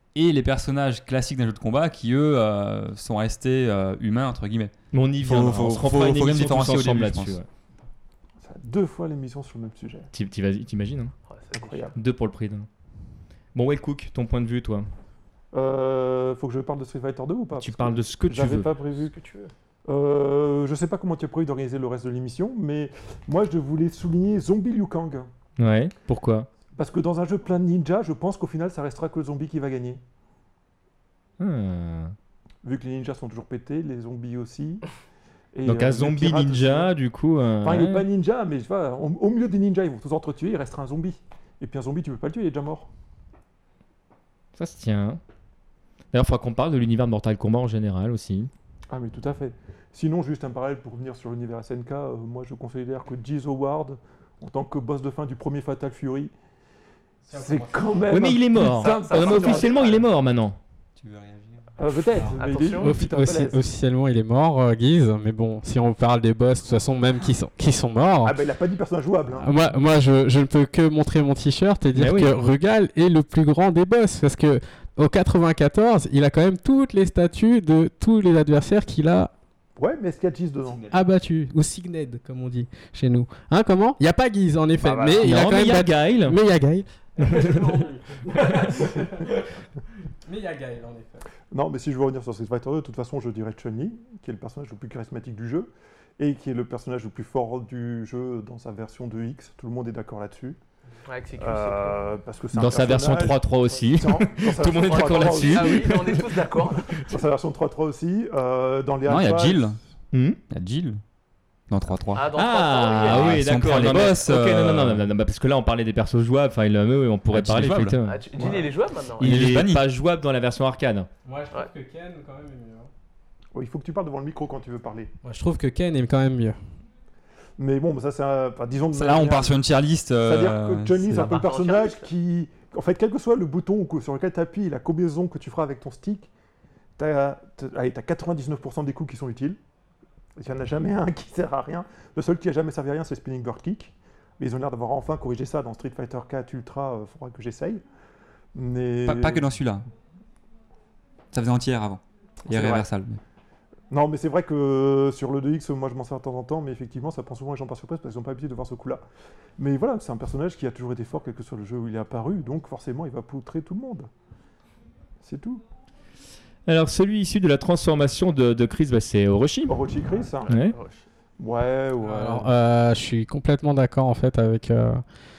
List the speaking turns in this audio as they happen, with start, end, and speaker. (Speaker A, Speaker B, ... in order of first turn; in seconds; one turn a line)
Speaker A: 0.1-7.4
Speaker B: 4.9-7.5
Speaker C: 8.4-10.1
Speaker B: 10.1-11.1
Speaker D: 11.3-11.9
Speaker C: 11.5-11.9
Speaker B: 11.9-12.7
Speaker B: 13.5-14.9
Speaker C: 15.5-19.1
Speaker B: 17.6-18.6
Speaker D: 19.0-19.5
Speaker C: 19.9-25.3
Speaker B: 25.6-26.5
Speaker C: 26.7-30.0
Speaker B: 31.4-32.1
Speaker C: 32.6-34.8
Speaker C: 35.5-36.9
Speaker B: 35.6-38.0
Speaker C: 37.6-42.9
Speaker B: 44.5-45.2
Speaker B: 46.1-48.5
Speaker C: 48.9-56.3
Speaker E: 57.3-58.0
Speaker C: 57.3-59.9
Speaker B: 58.1-60.6
Speaker D: 58.5-60.1
Speaker A: 61.0-61.6
Speaker C: 61.8-63.6
Speaker D: 62.2-63.0
Speaker E: 62.8-68.4
Speaker C: 68.2-69.5
Speaker E: 69.4-79.3
Speaker B: 71.9-72.4
Speaker C: 79.8-80.8
Speaker E: 80.9-89.4
Speaker C: 84.8-85.4
Speaker B: 85.2-86.3
Speaker B: 87.3-87.7
Speaker E: 90.2-91.2
Speaker C: 91.5-100.6
Speaker D: 101.0-102.0
Speaker C: 101.4-106.2
Speaker B: 102.5-106.2
Speaker D: 104.8-107.0
Speaker C: 107.1-109.7
Speaker A: 109.1-109.8
Speaker B: 110.1-110.4
Speaker A: 110.5-111.0
Speaker A: 111.7-112.3
Speaker D: 112.1-113.4
Speaker B: 112.3-118.6
Speaker A: 113.0-115.0
Speaker A: 117.3-118.0
Speaker D: 118.0-119.3
Speaker C: 118.3-118.7
Speaker B: 119.2-121.1
Speaker A: 119.2-119.9
Speaker E: 121.2-122.9
Speaker C: 123.5-125.1
Speaker E: 125.2-126.6
Speaker C: 127.6-129.6
Speaker A: 128.9-131.3
Speaker C: 130.2-136.3
Speaker D: 131.1-132.1
Speaker C: 137.0-139.6
Speaker C: 140.4-147.8
Speaker C: 148.5-149.4
Speaker A: 149.0-149.8
Speaker A: 151.3-153.2
Speaker C: 152.5-152.9
Speaker C: 153.9-159.0
Speaker C: 159.6-164.1
Speaker C: 165.2-165.6
Speaker B: 166.7-169.8
Speaker C: 169.7-170.5
Speaker D: 170.4-171.0
Speaker B: 170.5-170.8
Speaker C: 171.4-172.5
Speaker E: 172.0-175.0